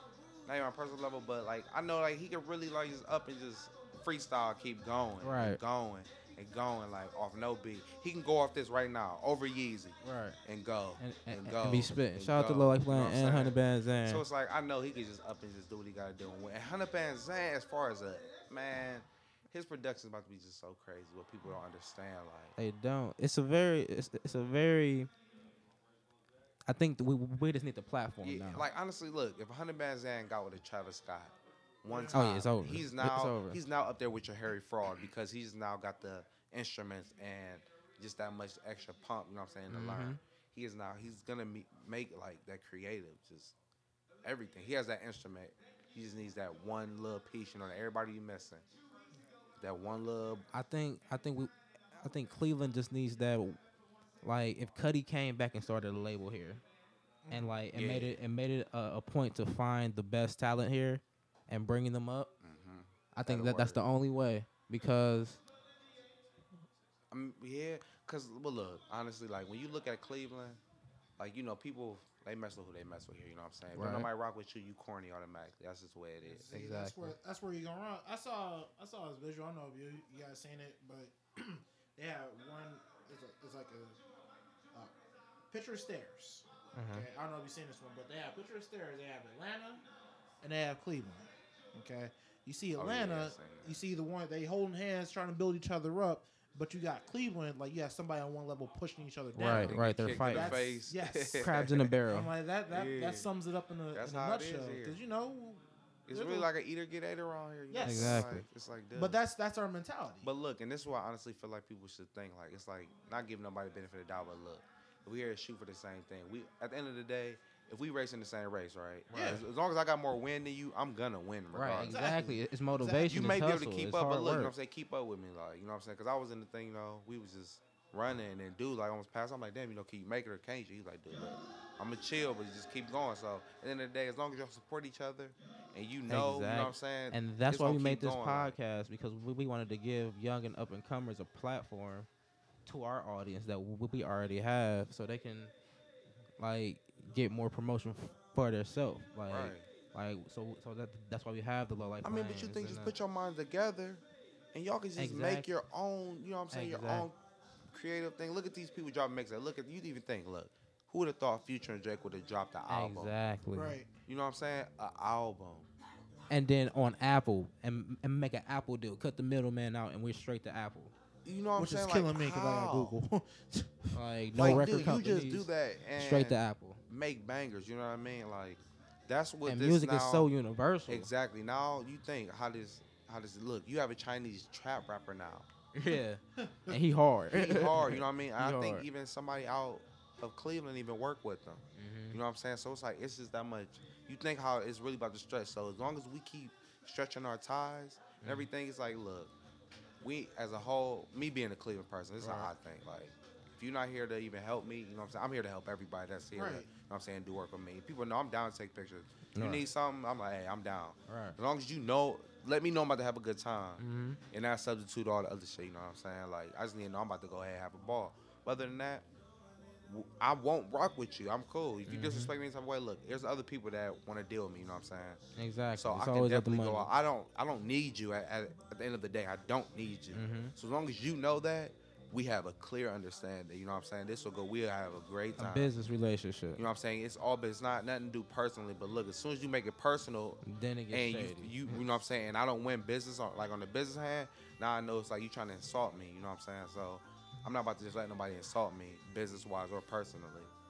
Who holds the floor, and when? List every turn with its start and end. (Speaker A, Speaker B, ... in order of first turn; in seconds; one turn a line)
Speaker A: 0.5-22.5
Speaker B: 5.2-5.6
Speaker B: 10.0-10.4
Speaker B: 11.0-14.2
Speaker B: 22.6-25.1
Speaker B: 26.6-28.7
Speaker A: 28.2-43.5
Speaker C: 31.9-32.2
Speaker B: 32.1-33.6
Speaker B: 39.7-40.2
Speaker A: 44.2-48.6
Speaker A: 49.6-50.5
Speaker B: 50.5-53.6
Speaker B: 54.2-56.6
Speaker C: 57.2-57.6
Speaker B: 57.3-62.3
Speaker A: 57.7-58.1
Speaker A: 62.4-63.8
Speaker B: 63.1-65.4
Speaker A: 67.1-70.6
Speaker A: 71.2-76.5
Speaker B: 73.7-74.1
Speaker C: 76.2-84.0
Speaker B: 76.5-77.2
Speaker C: 85.5-89.8
Speaker B: 86.7-87.1
Speaker C: 90.4-106.5
Speaker A: 92.8-93.8
Speaker B: 99.3-100.6
Speaker A: 99.4-101.9
Speaker B: 101.4-102.3
Speaker A: 102.7-103.3
Speaker A: 103.9-105.0
Speaker A: 106.1-109.2
Speaker C: 107.7-108.3
Speaker B: 107.8-108.5
Speaker C: 108.9-110.3
Speaker A: 110.2-122.2
Speaker C: 119.1-119.4
Speaker B: 121.5-124.5
Speaker C: 121.8-123.1
Speaker A: 123.0-138.6
Speaker B: 136.1-142.1
Speaker B: 142.7-145.5
Speaker B: 146.4-152.9
Speaker A: 149.3-149.7
Speaker A: 152.0-157.2
Speaker B: 154.9-155.5
Speaker B: 156.5-157.1
Speaker A: 157.7-163.1
Speaker B: 162.7-163.8
Speaker C: 163.5-163.9
Speaker A: 164.1-165.7
Speaker B: 166.3-170.9
Speaker A: 171.2-172.9
Speaker C: 171.6-174.7
Speaker B: 173.9-176.8
Speaker A: 174.4-180.3
Speaker B: 179.4-181.1
Speaker A: 180.9-185.5
Speaker B: 185.7-188.8
Speaker C: 186.4-186.7
Speaker A: 187.3-199.3
Speaker B: 191.8-192.2
Speaker B: 198.2-198.5
Speaker A: 200.0-219.0
Speaker B: 202.2-202.5
Speaker C: 206.3-206.7
Speaker B: 209.3-209.6
Speaker B: 211.1-211.4
Speaker B: 213.8-214.2
Speaker A: 219.8-225.2
Speaker B: 221.9-222.3
Speaker B: 225.3-226.9
Speaker A: 225.7-235.7
Speaker B: 230.1-230.5
Speaker B: 235.4-236.6
Speaker A: 236.6-250.5
Speaker B: 240.4-241.7